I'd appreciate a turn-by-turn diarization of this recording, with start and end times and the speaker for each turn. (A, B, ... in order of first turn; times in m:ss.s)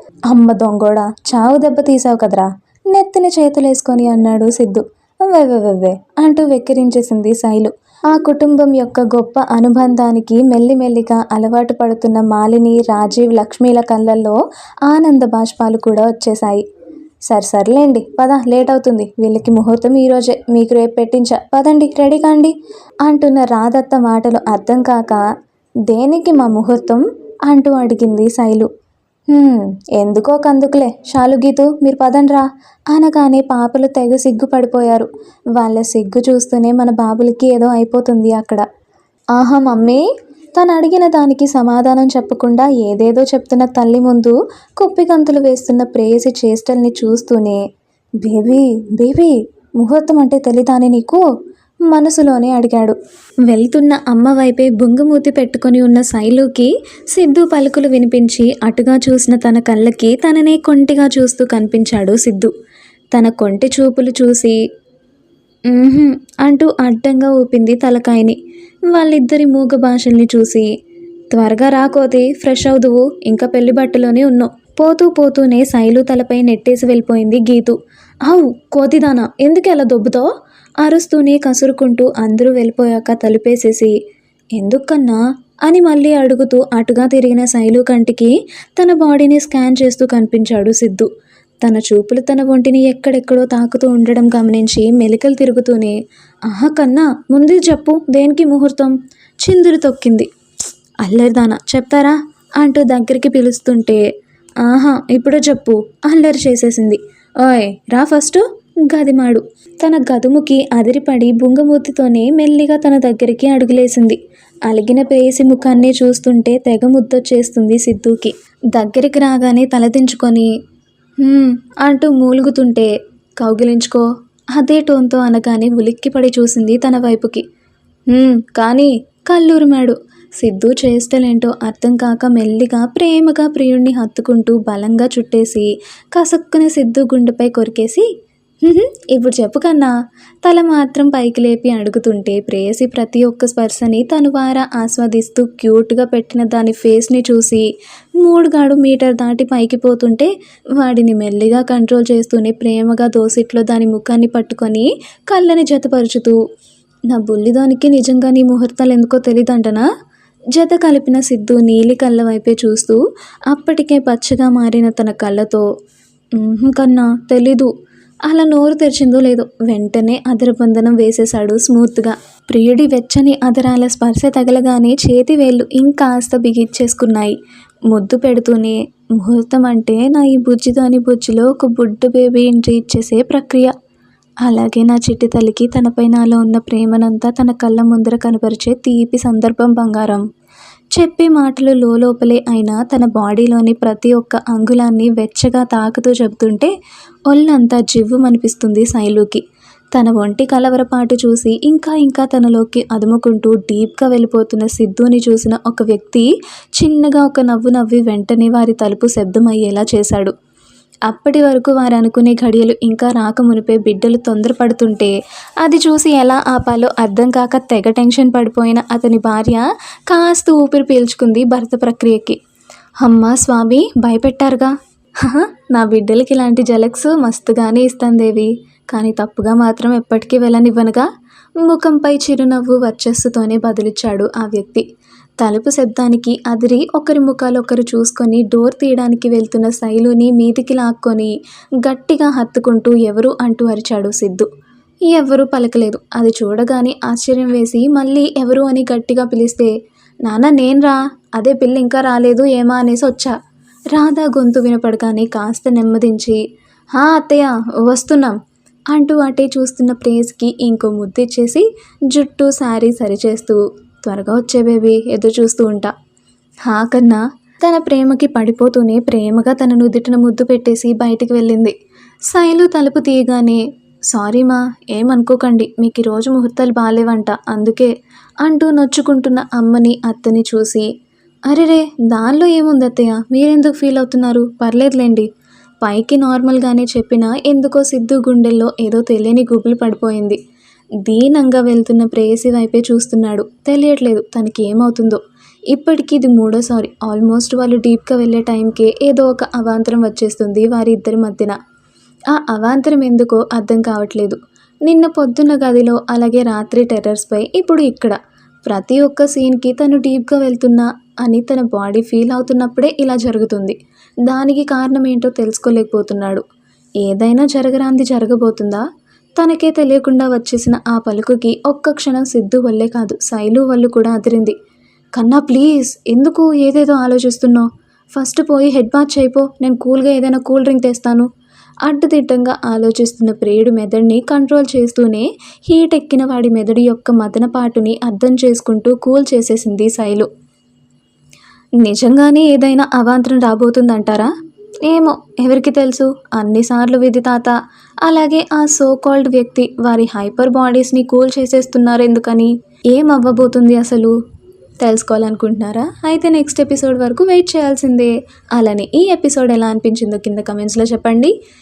0:00.3-0:16.6 A
0:17.3-0:22.5 A
0:23.0-0:25.2 A
0:25.9-0:28.7 A
0:29.3-0:38.6 A
0:39.3-0:40.0 A
0:40.6-0:47.6 A
0:48.2-0:51.2 A
0:51.9-1:02.5 A
1:03.1-1:04.6 A
1:05.7-1:08.4 A
1:08.9-1:10.7 A
1:11.3-1:20.3 A
1:20.8-1:23.9 A
1:24.6-1:31.1 A
1:31.6-1:40.3 A
1:41.0-1:44.0 A
1:44.6-2:00.5 A
2:01.2-2:07.4 A
2:08.1-2:18.1 A
2:18.6-2:19.9 A
2:20.4-2:27.7 A
2:28.2-2:36.4 A
2:37.1-2:39.9 A
2:40.5-2:45.6 A
2:46.3-2:47.7 A
2:48.3-2:57.4 A
2:57.9-3:03.7 A
3:04.4-3:10.2 A
3:10.9-3:16.7 A
3:17.3-3:19.4 A
3:19.9-3:30.3 A
3:31.1-3:42.4 A
3:43.0-3:51.1 A
3:51.6-3:54.8 A
3:55.4-4:04.5 A
4:05.1-4:09.7 A
4:10.2-4:13.3 A
4:13.9-4:16.4 A
4:16.9-4:18.4 A
4:18.9-4:25.9 A
4:26.6-4:31.7 A
4:32.3-4:40.9 A
4:41.5-4:45.3 A
4:45.8-4:50.4 A
4:51.0-5:01.6 A
5:02.3-5:16.4 A
5:17.0-5:18.8 A
5:19.4-5:24.5 A
5:25.1-5:31.3 A
5:31.8-5:40.3 A
5:41.8-5:44.3 A
5:44.8-5:54.1 A
5:54.8-6:01.3 A